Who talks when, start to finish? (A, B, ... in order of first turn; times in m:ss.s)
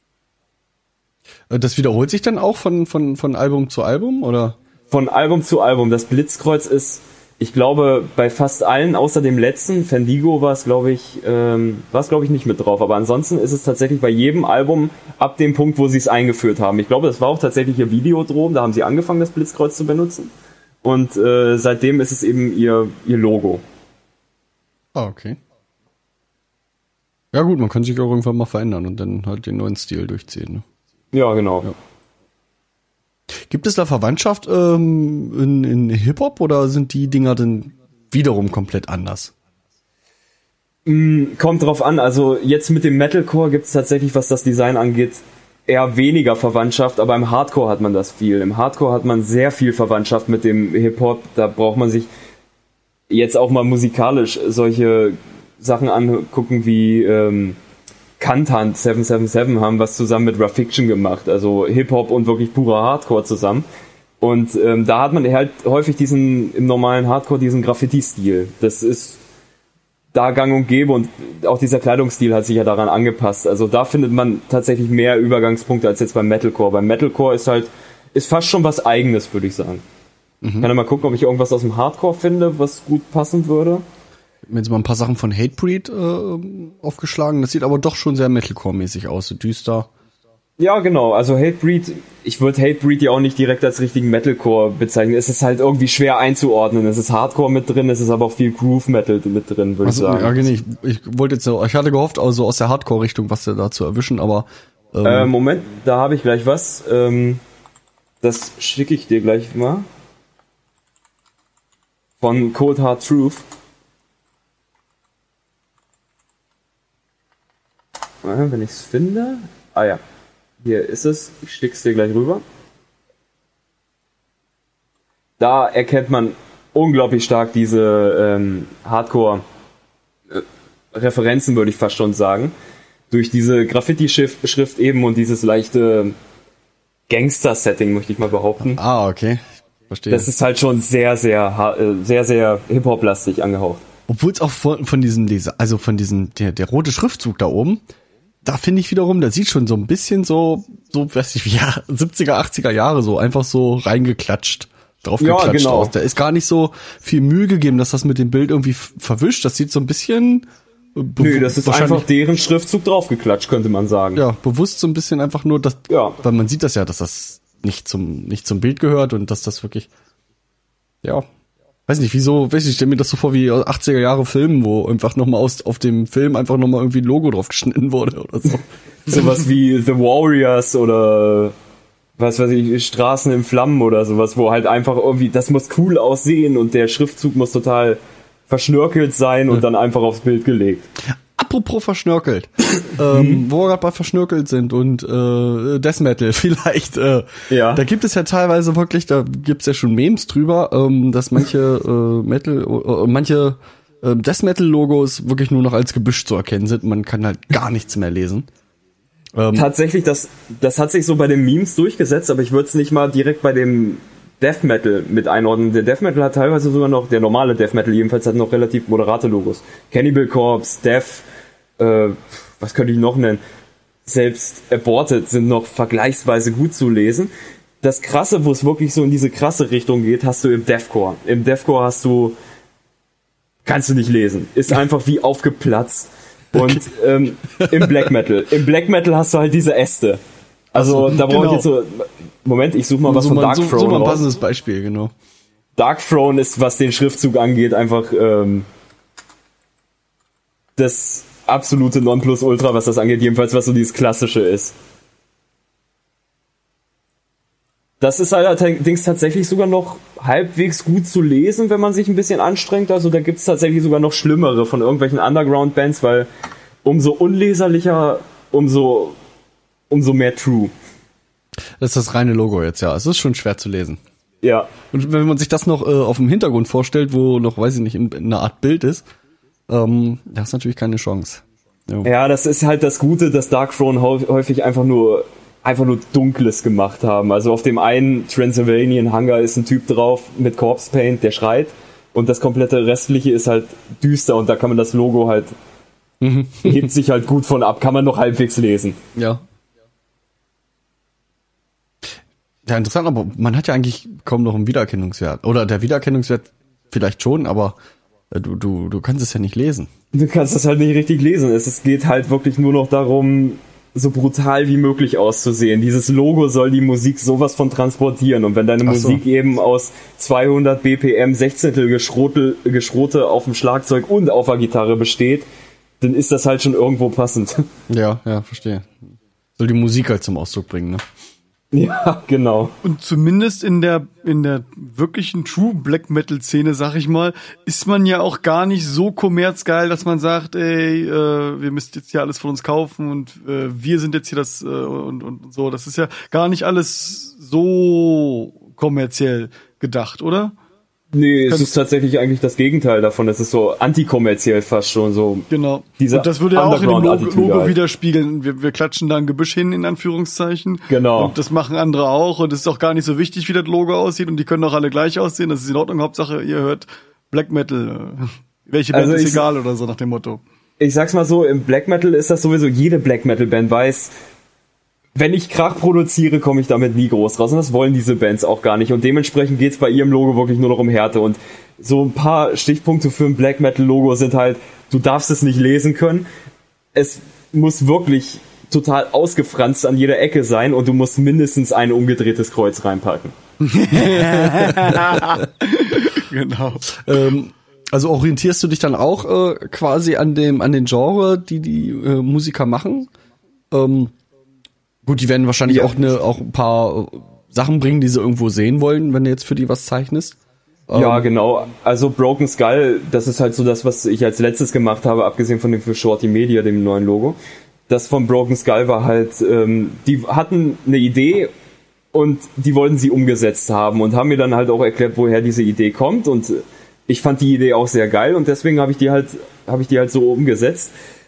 0:01.5-0:04.6 A
0:04.9-0:20.3 B
0:20.8-0:23.6 B
0:25.0-0:25.4 A
0:27.3-0:30.6 A
0:31.1-0:31.7 B
0:33.5-0:39.3 A
0:40.9-0:52.1 B
0:53.1-0:57.6 B
0:58.2-1:03.7 B
1:04.2-1:09.2 B
1:10.1-1:19.8 B
1:20.4-1:20.7 A
1:20.6-1:23.8 B
1:24.5-1:29.9 A
1:30.6-1:40.4 B
1:39.8-1:45.3 A
1:45.0-1:47.4 B
1:48.2-1:49.9 B
1:52.2-1:53.5 B
1:58.2-2:00.0 B
2:00.6-2:02.4 B
2:05.4-2:09.4 B
2:10.3-2:12.5 B
2:13.1-2:16.2 B
2:17.1-2:18.8 B
2:18.6-2:20.3 A
2:20.1-2:23.8 B
2:24.1-2:27.8 A
2:28.4-2:42.1 A
2:35.2-2:35.9 B
2:41.2-2:44.2 B
2:44.2-2:49.9 A
2:45.9-2:46.2 B
2:51.9-2:58.7 A
2:59.1-3:01.6 B
3:02.2-3:10.9 B
3:11.1-3:28.5 A
3:13.1-3:13.4 B
3:17.5-3:17.8 B
3:29.4-3:29.7 A
3:29.5-3:41.3 B
3:41.8-3:43.4 B
3:44.1-3:47.3 B
3:47.8-3:52.4 B
3:53.6-4:00.2 B
3:57.6-3:58.0 A
4:00.7-4:04.2 B
4:00.8-4:01.2 A
4:01.1-4:01.7 C
4:03.0-4:05.1 A
4:05.8-4:08.7 B
4:10.8-4:14.8 B
4:18.0-4:26.3 B
4:26.8-4:29.2 B
4:29.9-4:30.7 B
4:31.8-4:34.0 A
4:34.4-4:34.7 B
4:34.9-4:39.1 A
4:39.7-4:42.1 A
4:42.0-4:55.5 B
4:56.2-4:56.9 A
4:56.6-4:59.0 B
4:59.2-4:59.4 A
5:02.7-5:07.8 A
5:08.3-5:09.9 A
5:10.1-5:25.5 B
5:18.8-5:19.2 A
5:26.0-5:27.7 B
5:27.9-5:31.0 A
5:31.7-5:32.7 B
5:32.8-5:50.5 C
5:51.1-5:55.5 B
5:55.5-6:10.4 C
5:56.0-5:57.8 B
6:00.9-6:01.4 B
6:08.9-6:09.5 B
6:10.8-6:14.1 B
6:15.2-6:26.3 B
6:26.9-6:33.4 B
6:33.6-6:37.0 C
6:33.9-6:35.4 A
6:36.9-6:43.1 A
6:43.7-6:44.1 A
6:45.1-6:50.4 A
6:45.7-6:46.0 B
6:50.9-6:51.3 A
6:50.9-6:57.4 B
6:57.9-7:01.5 B
7:02.1-7:10.9 B